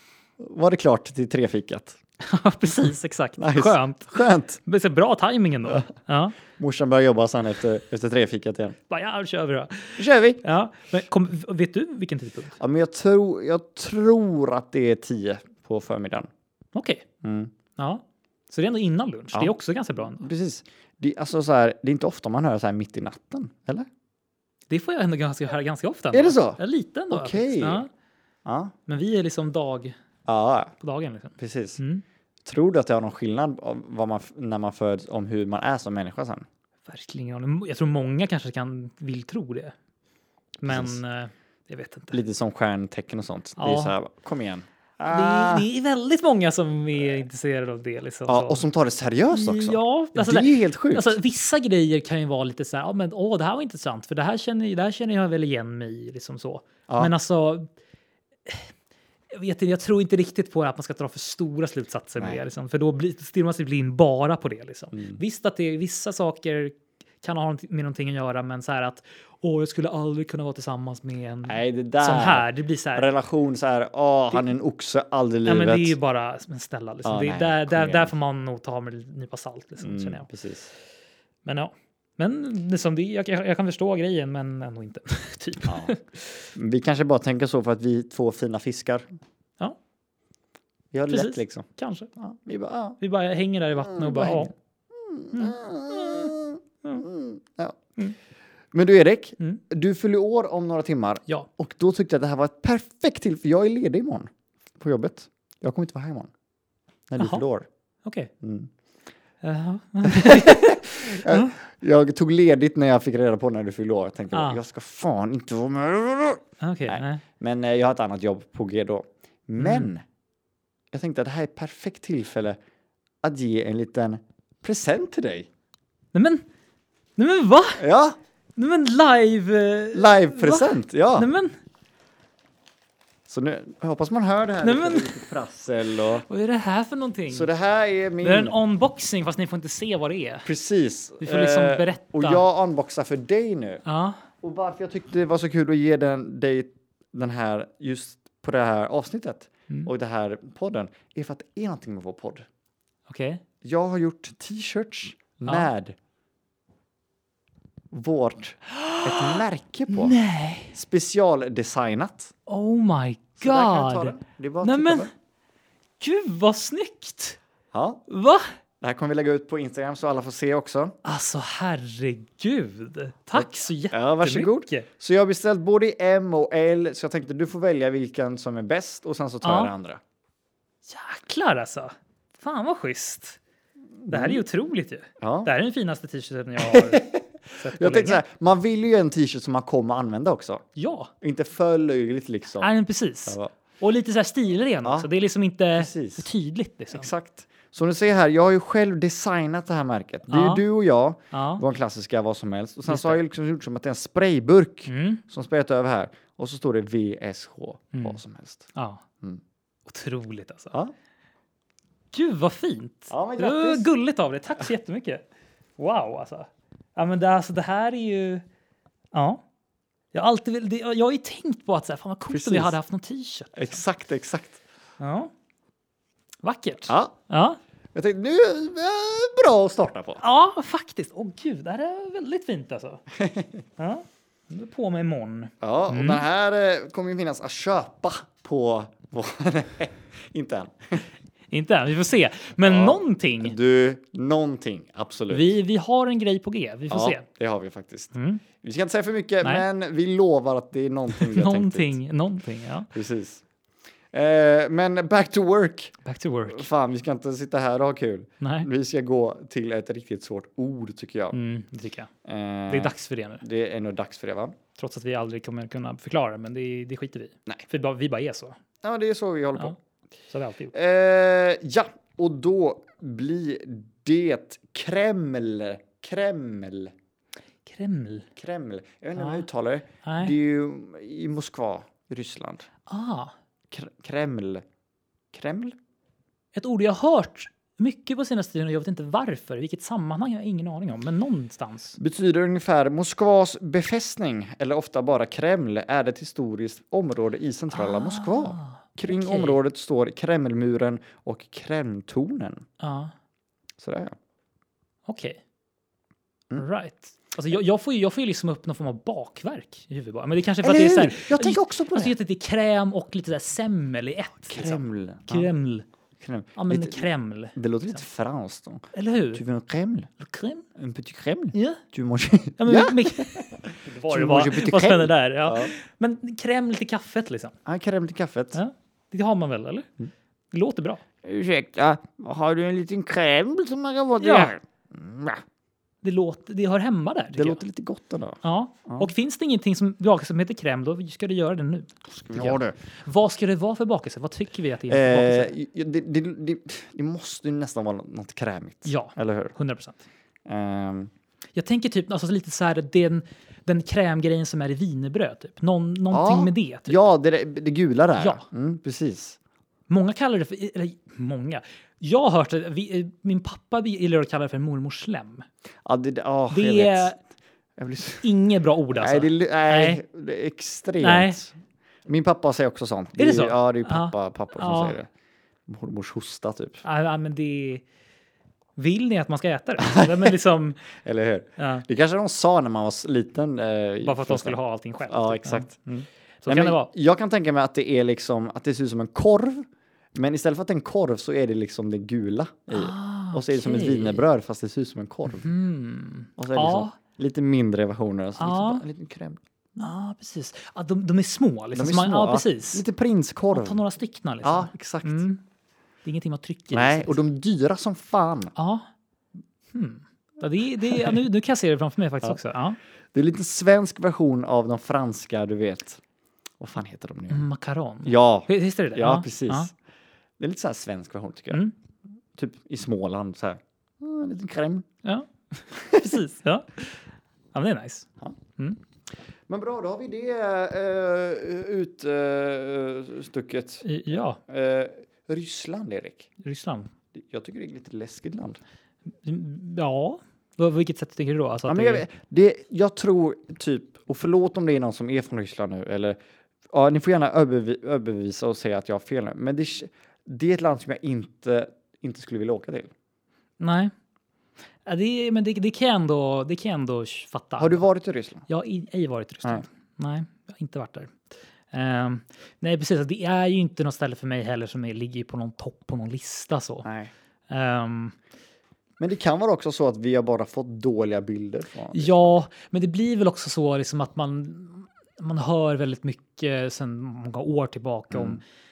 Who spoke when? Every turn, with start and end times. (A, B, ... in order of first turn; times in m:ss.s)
0:00.4-0:02.0 A
0:02.2-0:06.4 B
0:03.4-0:04.6 A
0:06.5-0:08.8 A
0:08.9-0:12.6 B
0:10.0-0:10.4 A
0:12.6-0:16.3 A
0:16.7-0:17.0 B
0:17.2-0:17.5 A
0:17.8-0:20.3 B
0:20.1-0:23.9 A
0:24.7-0:27.9 B
0:26.1-0:26.6 A
0:27.1-0:27.8 A
0:28.4-0:28.7 A
0:28.9-0:29.9 B
0:30.2-0:30.7 A
0:30.8-0:32.0 B
0:31.4-0:31.8 A
0:32.4-0:36.4 A
0:36.8-0:39.7 B
0:40.6-0:42.2 B
0:40.6-0:41.0 A
0:42.1-0:45.7 A
0:43.6-0:43.9 B
0:45.0-0:48.6 B
0:48.3-0:51.1 A
0:49.3-0:57.7 B
0:59.3-1:13.1 B
1:04.9-1:05.2 A
1:11.5-1:16.0 A
1:15.4-1:20.3 B
1:17.0-1:18.1 A
1:19.8-1:20.7 A
1:21.4-1:26.5 B
1:25.6-1:25.9 A
1:26.5-1:29.2 A
1:30.9-1:33.0 A
1:31.1-1:32.1 B
1:33.0-1:34.5 B
1:33.8-1:37.8 A
1:35.3-1:36.3 B
1:38.7-1:46.3 A
1:47.1-1:47.6 A
1:47.2-1:47.4 B
1:48.0-1:48.3 B
1:48.4-1:48.7 A
1:49.4-1:51.5 B
1:50.0-2:00.0 A
1:54.3-1:54.6 B
1:56.6-1:57.2 B
1:59.6-1:59.9 B
2:00.9-2:02.6 A
2:03.2-2:05.5 A
2:06.1-2:06.4 B
2:07.2-2:07.8 B
2:07.8-2:08.2 A
2:08.6-2:11.6 B
2:09.9-2:11.3 A
2:13.3-2:16.2 A
2:14.6-2:15.3 B
2:16.1-2:17.5 B
2:17.3-2:18.6 A
2:18.2-2:20.5 B
2:20.4-2:23.8 A
2:21.2-2:22.4 B
2:23.8-2:24.2 B
2:24.4-2:32.4 A
2:33.1-2:33.4 B
2:33.6-2:36.0 A
2:35.4-2:35.7 B
2:37.9-2:40.2 A
2:38.7-2:40.8 B
2:40.7-2:42.3 A
2:42.5-2:45.1 B
2:43.4-2:45.1 A
2:46.0-2:47.4 B
2:47.7-2:48.0 A
2:48.1-2:48.5 B
2:48.8-2:50.9 A
2:51.0-2:54.9 B
2:53.3-3:00.0 A
2:59.4-2:59.7 B
3:00.9-3:03.4 B
3:04.0-3:04.4 A
3:04.1-3:08.2 B
3:05.2-3:05.5 A
3:06.6-3:10.6 A
3:10.8-3:11.1 B
3:11.2-3:12.7 A
3:12.6-3:17.1 B
3:14.8-3:15.1 A
3:15.7-3:16.3 A
3:16.9-3:28.7 A
3:20.3-3:20.6 B
3:21.3-3:21.6 B
3:22.9-3:23.2 B
3:24.9-3:25.2 B
3:27.9-3:28.2 B
3:28.7-3:29.0 B
3:29.9-3:30.8 B
3:32.1-3:35.2 B
3:33.1-3:33.9 A
3:35.8-3:38.4 B
3:39.1-3:39.4 B
3:40.1-3:43.7 B
3:42.3-3:42.7 A
3:43.5-3:44.6 A
3:45.0-3:45.3 B
3:46.4-3:47.6 B
3:46.9-3:47.1 A
3:47.9-3:50.2 A
3:50.2-3:53.0 B
3:53.1-3:53.6 A
3:53.8-3:56.2 B
3:55.6-4:01.0 A
4:01.5-4:03.6 B
4:02.6-4:05.5 A
4:05.3-4:07.2 B
4:06.9-4:12.0 A
4:08.1-4:08.4 B
4:11.1-4:12.9 B
4:12.9-4:13.4 A
4:14.1-4:21.4 A
4:16.0-4:16.7 B
4:18.4-4:18.7 B
4:21.3-4:22.1 B
4:22.2-4:24.6 A
4:22.7-4:23.4 B
4:24.8-4:28.6 B
4:28.8-4:29.7 A
4:30.3-4:30.7 B
4:30.7-4:36.9 A
4:37.6-4:38.3 B
4:38.4-4:42.7 A
4:39.2-4:39.4 B
4:40.0-4:40.3 B
4:42.9-4:43.3 B
4:43.7-4:44.6 A
4:45.3-4:45.7 A
4:46.5-4:52.0 B
4:52.0-5:02.6 A
4:57.7-4:59.6 B
5:02.8-5:03.1 B
5:03.8-5:04.1 A
5:05.1-5:05.4 B
5:06.6-5:15.8 B
5:10.6-5:12.1 A
5:14.5-5:15.5 A
5:16.2-5:17.0 A
5:16.6-5:17.6 B
5:17.6-5:20.1 A
5:18.9-5:19.4 B
5:20.2-5:20.6 B
5:20.8-5:25.7 A
5:21.5-5:21.8 B
5:22.6-5:27.6 B
5:27.6-5:28.6 A
5:28.5-5:29.9 B
5:30.5-5:31.0 B
5:31.2-5:35.4 A
5:34.2-5:34.5 B
5:36.0-5:37.6 B
5:37.3-5:39.1 A
5:38.4-5:45.5 B
5:42.1-5:42.8 A
5:44.9-5:49.5 A
5:48.8-5:50.1 B
5:50.4-5:51.1 A
5:51.6-5:57.0 B
5:56.1-5:59.4 A
5:58.2-5:58.4 B
5:59.9-6:05.4 B
6:05.8-6:07.1 A
6:06.5-6:07.2 B
6:07.8-6:08.2 A
6:08.2-6:10.0 B
6:08.9-6:11.5 A
6:11.0-6:11.4 B
6:12.0-6:15.1 A
6:13.2-6:15.0 B
6:15.7-6:16.8 A
6:16.8-6:17.8 B
6:18.8-6:20.8 B
6:19.8-6:24.6 A
6:21.6-6:21.8 B
6:24.0-6:25.7 B
6:25.1-6:35.5 A
6:26.4-6:26.9 B
6:32.7-6:34.2 B
6:35.3-6:37.0 B
6:36.4-6:39.4 A
6:38.4-6:38.8 B
6:39.8-6:42.8 B
6:41.7-6:43.8 A
6:43.5-6:45.4 B
6:44.4-6:45.2 A
6:46.0-6:47.2 B
6:46.7-6:48.5 A
6:48.6-6:48.9 B
6:49.7-6:52.8 B
6:50.9-6:51.2 A
6:53.1-6:56.0 A
6:56.6-6:57.5 A
6:57.3-6:59.7 B
6:58.0-6:59.7 A
7:00.4-7:01.6 A
7:02.3-7:04.9 A
7:05.0-7:08.8 B
7:05.7-7:06.2 A
7:09.5-7:13.8 A
7:13.8-7:14.4 B
7:14.5-7:16.3 A
7:16.4-7:16.9 B
7:17.1-7:18.6 A
7:19.2-7:22.0 B
7:21.7-7:26.2 A
7:26.7-7:32.9 A
7:33.6-7:33.9 B
7:34.8-7:37.8 B
7:37.6-7:38.4 A
7:38.5-7:41.2 B
7:41.7-7:46.9 B
7:46.8-7:47.1 A
7:47.5-7:48.2 B
7:49.0-7:52.2 A
7:51.9-7:58.4 B
7:58.1-7:58.4 A